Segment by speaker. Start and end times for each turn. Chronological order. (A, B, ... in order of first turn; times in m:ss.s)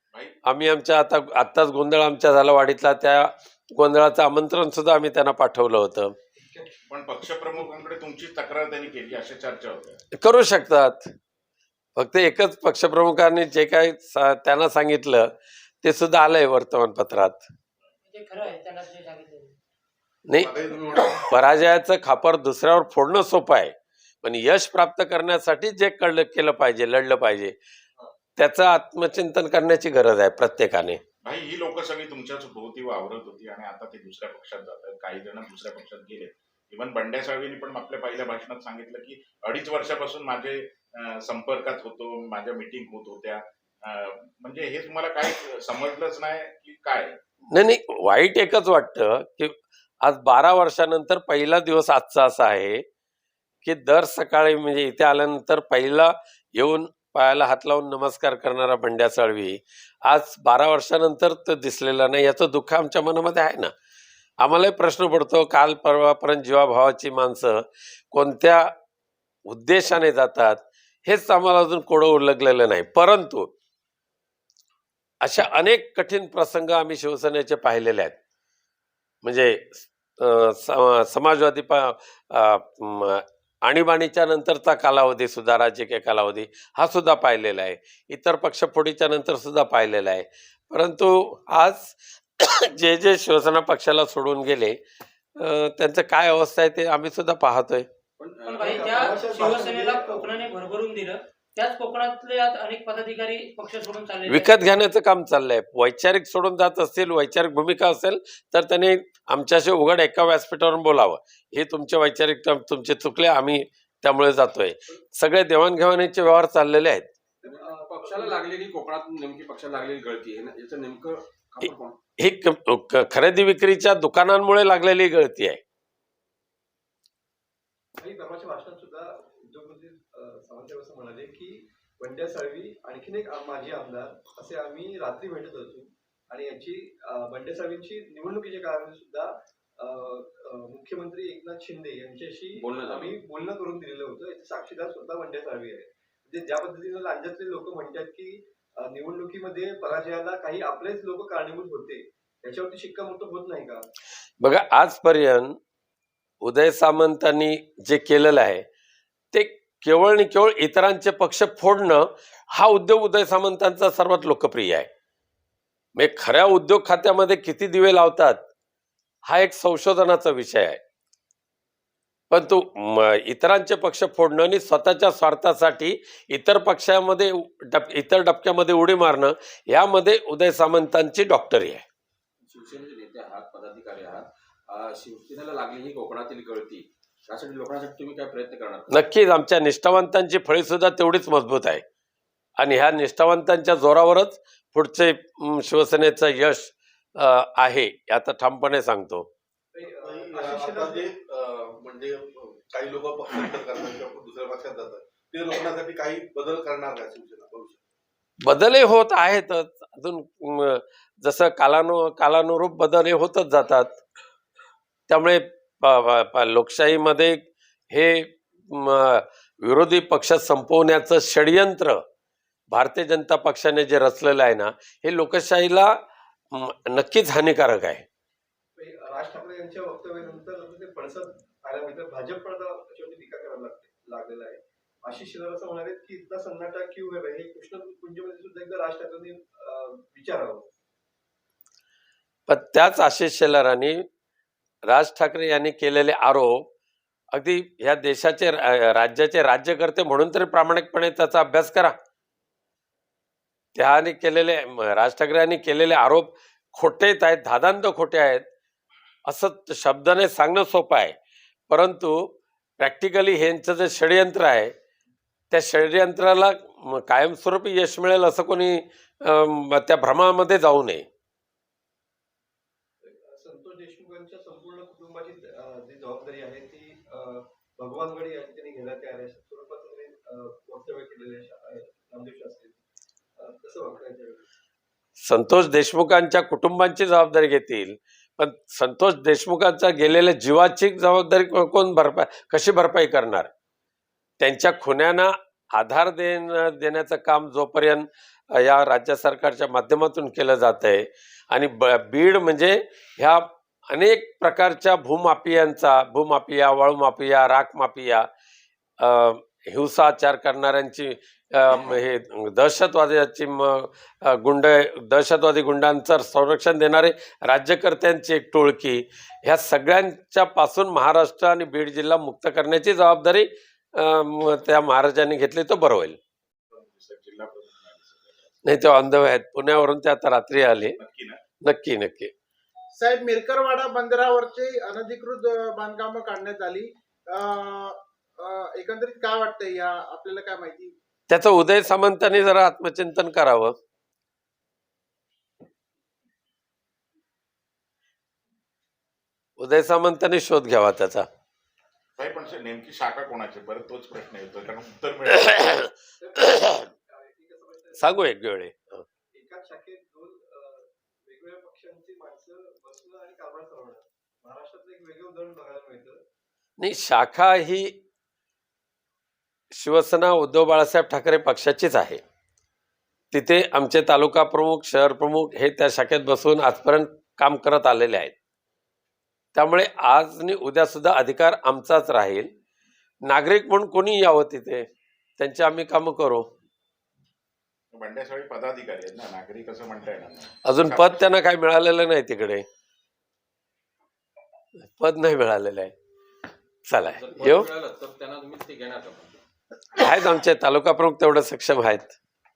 0:00.4-0:06.1 A
0:06.4-0:06.7 B
0:06.9-0:10.0 C
0:10.2-0:11.1 A
0:12.0-0:15.3 A
0:15.8-0:17.4 A
0:18.0-0:19.6 D
0:20.3-0:27.5 A
0:20.3-0:21.3 E
0:28.4-0:31.0 A
0:31.2-0:47.2 C
0:47.5-0:52.8 A
0:53.6-1:03.7 A
1:04.4-1:08.7 A
1:09.5-1:13.5 A
1:15.2-1:18.1 A
1:19.2-1:34.8 A
1:35.4-1:37.9 A
1:38.2-1:39.3 F
1:38.4-1:44.6 D
1:38.6-1:40.5 B
1:44.3-1:57.1 A
1:57.4-1:58.4 B
1:57.4-2:02.0 F
2:02.2-2:05.6 A
2:08.0-2:33.8 B
2:22.6-2:23.2 F
2:34.4-2:35.6 A
2:36.4-2:38.6 A
2:39.3-2:44.9 A
2:46.0-2:48.4 A
2:49.2-2:50.8 A
2:52.3-3:01.8 A
3:02.4-3:09.0 F
3:08.9-3:11.8 A
3:12.6-3:19.3 A
3:19.7-3:21.1 B
3:19.9-3:27.8 E
3:28.4-3:34.0 A
3:35.1-3:42.0 A
3:42.7-3:45.9 A
3:46.5-3:48.0 A
3:48.8-4:00.6 B
4:02.5-4:04.0 A
4:04.9-4:06.6 A
4:07.3-4:11.9 A
4:13.7-4:18.4 A
4:19.3-4:21.2 A
4:21.7-4:22.3 A
4:22.8-4:24.7 A
4:25.5-4:31.0 A
4:33.0-4:42.8 B
4:43.4-4:44.4 B
4:45.2-4:53.5 A
4:54.4-5:08.2 A
5:09.0-5:26.2 A
5:26.7-5:28.6 C
5:28.6-5:31.0 A
5:31.0-5:31.4 C
5:31.6-5:32.3 A
5:33.0-5:40.9 G
5:41.3-5:43.7 A
5:49.6-5:51.3 A
5:52.2-5:55.8 C
5:55.4-5:55.9 A
5:56.2-5:58.3 B
5:58.0-5:59.0 A
5:59.3-6:06.2 B
6:06.8-6:07.9 A
6:09.7-6:12.2 A
6:13.3-6:18.3 A
6:19.5-6:22.5 A
6:23.2-6:24.8 A
6:25.4-6:26.4 A
6:27.9-6:31.2 C
6:30.6-6:32.6 A
6:34.8-6:35.9 A
6:36.9-6:37.7 A
6:37.1-6:39.4 F
6:39.9-6:42.2 A